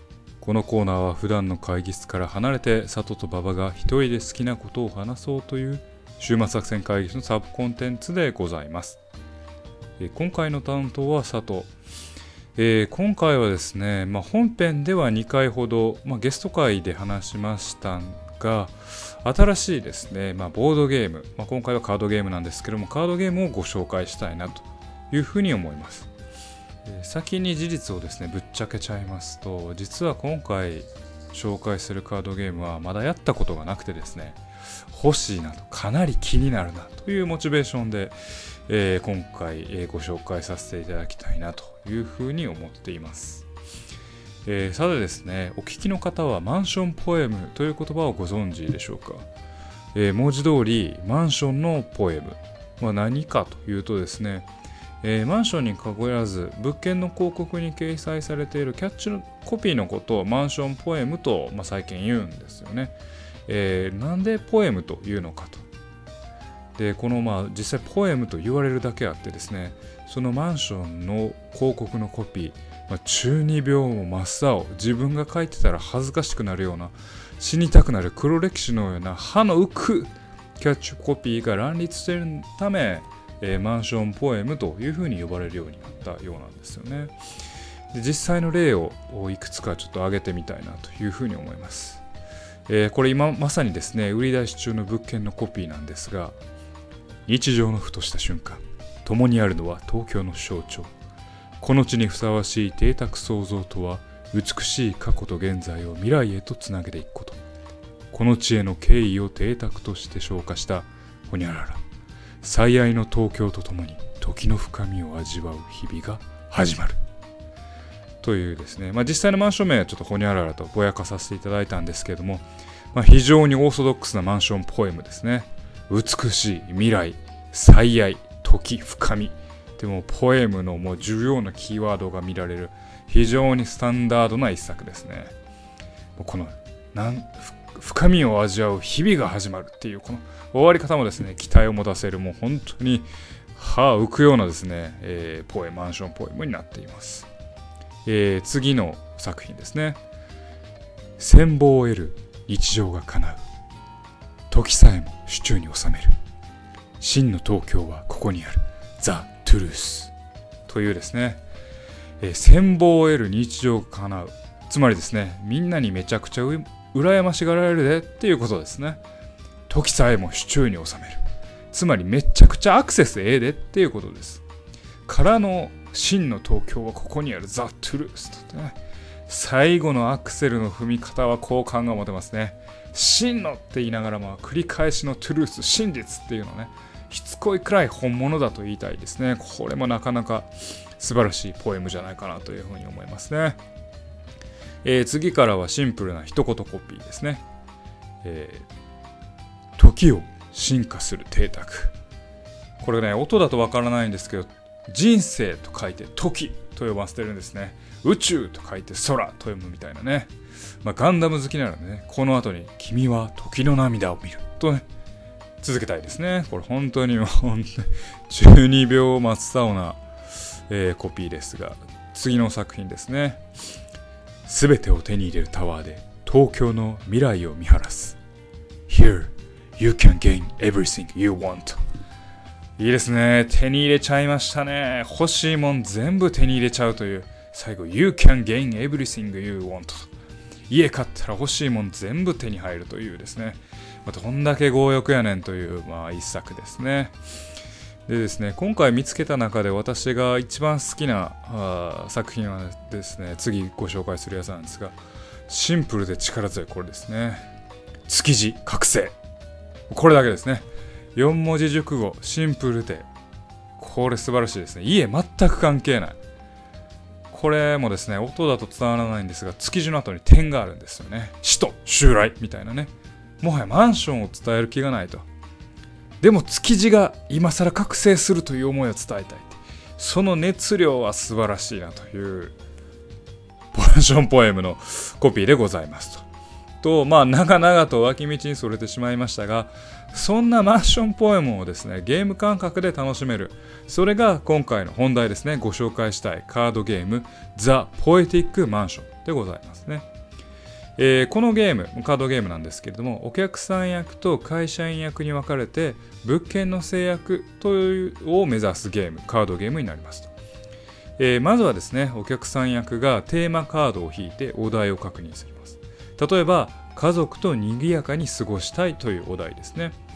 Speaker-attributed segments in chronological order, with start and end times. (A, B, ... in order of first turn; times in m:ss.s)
0:00.4-0:09.0 A
0:10.0-0:11.7 A
0:12.6-0:26.1 A
0:26.8-0:43.4 A
0:44.4-0:49.3 A
0:49.9-0:54.5 A
0:55.0-1:05.6 A
1:06.8-1:27.1 A
1:27.9-1:32.0 A
1:32.7-1:36.4 A
1:37.2-1:40.9 A
1:41.6-1:47.4 A
1:48.1-1:51.8 A
1:52.4-1:57.0 A
1:58.2-2:15.3 A
2:16.2-2:27.3 A
2:28.0-2:30.0 A
2:31.2-2:33.4 A
2:34.5-2:36.2 A
2:37.0-2:40.1 A
2:40.7-2:41.4 A
2:42.2-2:49.0 A
2:49.7-2:54.4 A
2:55.0-2:58.8 A
2:59.3-3:13.6 A
3:14.8-3:17.4 A
3:18.2-3:18.7 A
3:19.8-3:21.9 A
3:22.8-3:34.8 A
3:35.6-3:40.0 A
3:40.7-3:43.4 A
3:44.4-3:48.2 A
3:48.9-3:51.8 A
3:52.8-4:00.1 A
4:00.7-4:07.2 A
4:08.1-4:15.0 A
4:15.5-4:17.5 A
4:18.0-4:19.2 A
4:19.9-4:23.1 A
4:23.8-4:26.2 A
4:27.3-4:35.2 A
4:36.2-4:42.6 A
4:43.7-4:46.2 A
4:46.8-5:00.1 A
5:01.0-5:10.3 A
5:11.2-5:20.0 A